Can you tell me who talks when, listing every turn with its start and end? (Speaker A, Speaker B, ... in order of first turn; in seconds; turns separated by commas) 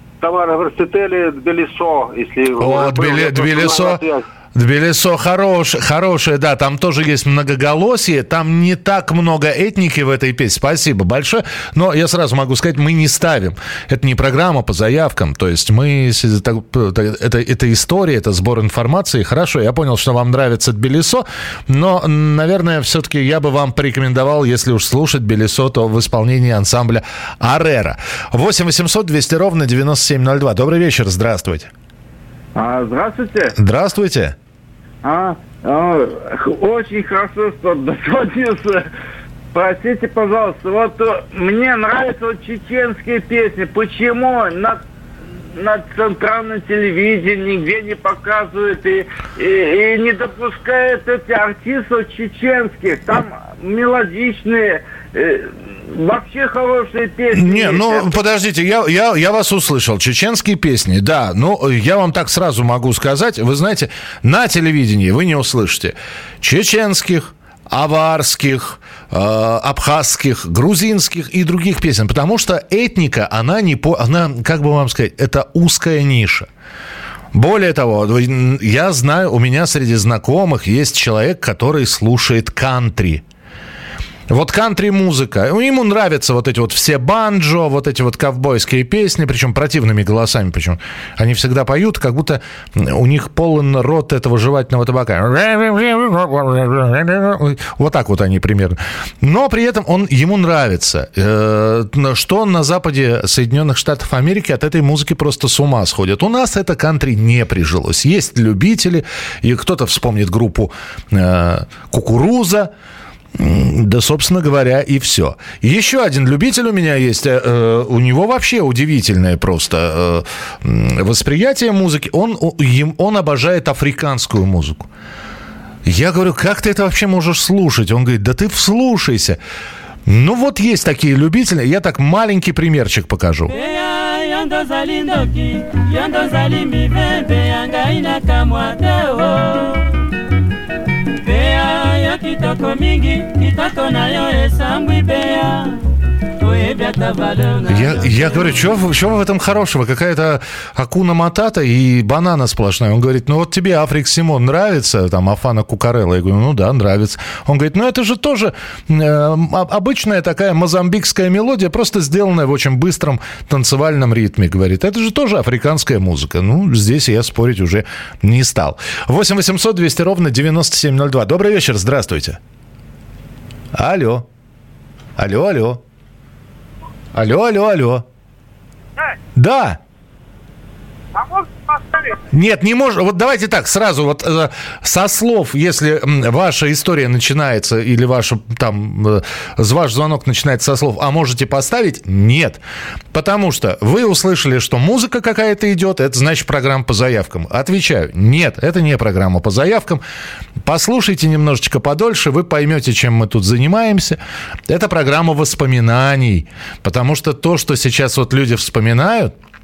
Speaker A: 0.2-4.2, Speaker B: 2.6-4.0, Speaker B: 4.5-31.7, Speaker C: 32.6-33.5, Speaker B: 33.6-34.4, Speaker C: 35.0-38.9, Speaker C: 39.5-44.8, Speaker C: 45.5-58.2, Speaker B: 57.3-76.5, Speaker B: 77.3-83.2, Speaker B: 84.3-112.7, Speaker B: 113.3-124.9, Speaker B: 125.8-129.4, Speaker B: 130.1-133.5, Speaker D: 133.5-139.9, Speaker D: 141.2-145.8, Speaker D: 146.4-148.5, Speaker B: 147.7-172.4, Speaker B: 173.7-174.3, Speaker B: 175.2-175.8, Speaker B: 177.1-178.1, Speaker B: 179.4-179.8, Speaker B: 182.3-192.6, Speaker B: 193.1-200.0, Speaker B: 200.6-209.3